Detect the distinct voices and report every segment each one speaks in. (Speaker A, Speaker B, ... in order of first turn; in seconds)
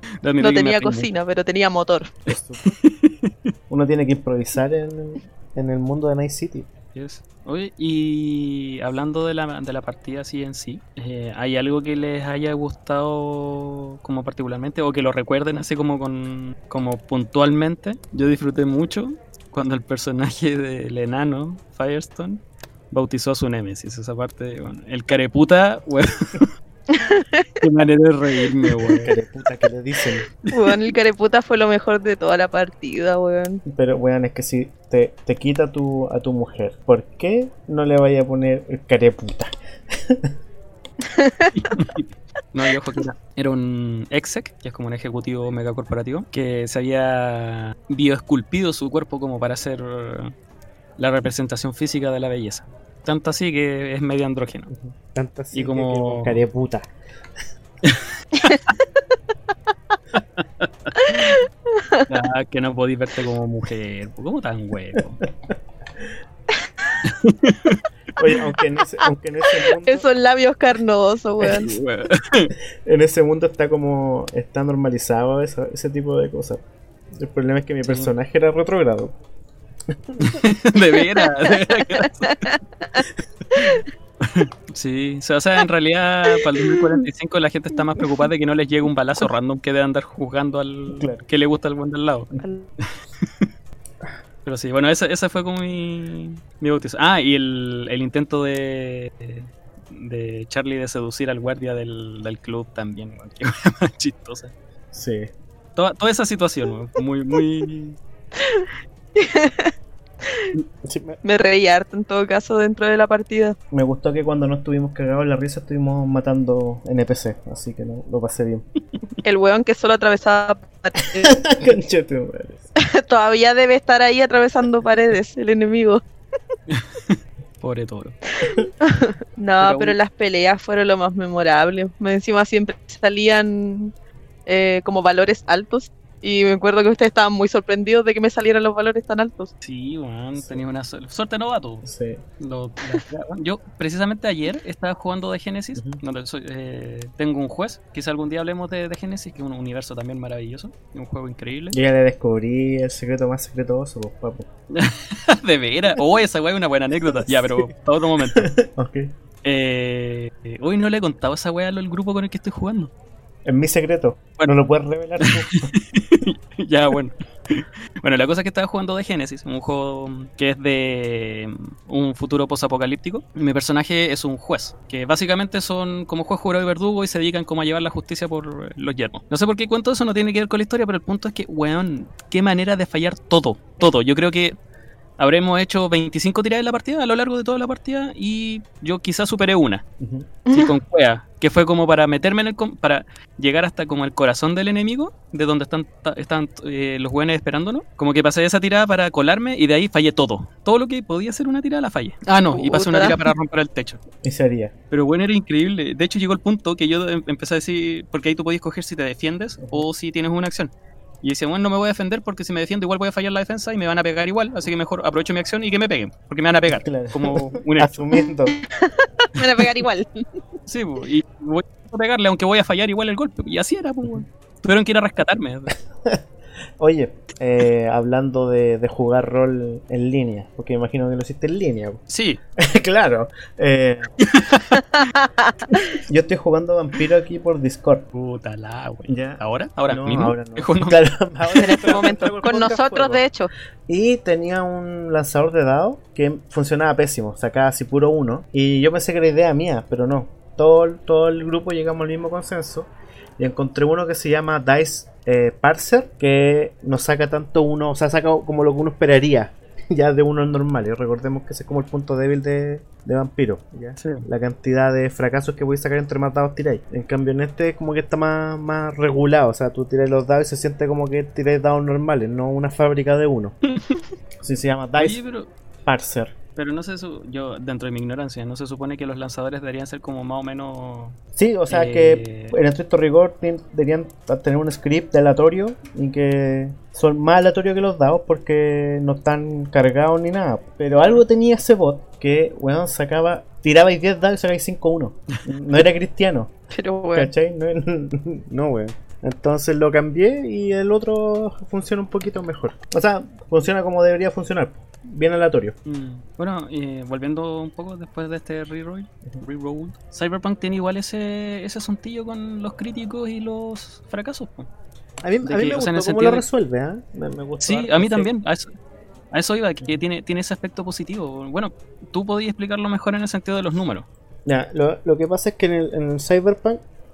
Speaker A: 0.2-1.1, 2.6-3.5, 6.9-26.5, 27.6-29.1, 41.5-50.3, 51.0-54.7, 55.5-56.4, 57.8-58.6, 60.4-61.4, 62.1-65.2, 67.0-67.8, 71.4-72.5, 77.8-78.1, 80.2-82.4, 83.6-93.5, 94.4-104.5, 105.8-108.0, 126.7-128.2, 129.6-129.9, 139.6-151.8, 154.7-158.5, 159.4-162.9, 165.2-184.6, 185.2-189.8, 190.5-204.0, 204.9-210.7, 211.2-218.1, 220.7-225.7, 232.1-232.4, 234.2-234.8, 238.1-241.0, 241.6-242.1, 264.0-264.3, 273.7-273.9, 275.0-275.5, 276.6-281.2, 281.7-282.5, 290.9-291.2, 305.8-314.7, 315.4-316.4, 317.6-318.7, 319.3-324.1
Speaker B: 0.4-2.1, 26.9-27.6, 30.5-33.6, 41.1-41.5, 61.0-62.1, 69.5-71.8, 81.0-83.0, 83.5-83.8, 86.3-86.9, 88.0-88.3, 92.4-92.7, 108.4-109.7, 110.2-110.5, 111.2-113.5, 119.2-121.5, 122.8-126.0, 128.4-133.9, 134.4-139.5, 190.5-190.7, 202.5-203.3, 218.5-220.2, 234.7-236.0, 241.6-243.5, 296.7-297.3
Speaker C: 2.3-2.8, 3.7-6.7, 29.0-30.3, 33.6-40.3, 54.7-56.9, 65.5-66.0, 68.2-70.0, 72.8-76.6, 77.2-79.2, 80.1-80.4, 90.9-91.2, 104.9-105.3, 110.8-111.2, 113.7-118.6, 121.2-122.7, 140.3-140.7, 141.8-142.2, 145.8-146.0, 151.7-154.4, 157.0-157.7, 158.3-159.1, 163.4-165.7, 190.0-190.3, 204.2-204.7, 209.6-209.8, 216.7-218.6, 226.8-232.0, 232.6-234.1, 235.7-238.1, 239.1-243.2, 243.9-273.6, 274.4-275.2, 275.8-276.3, 281.4-296.5, 297.1-305.8, 315.2-318.3, 324.4-326.8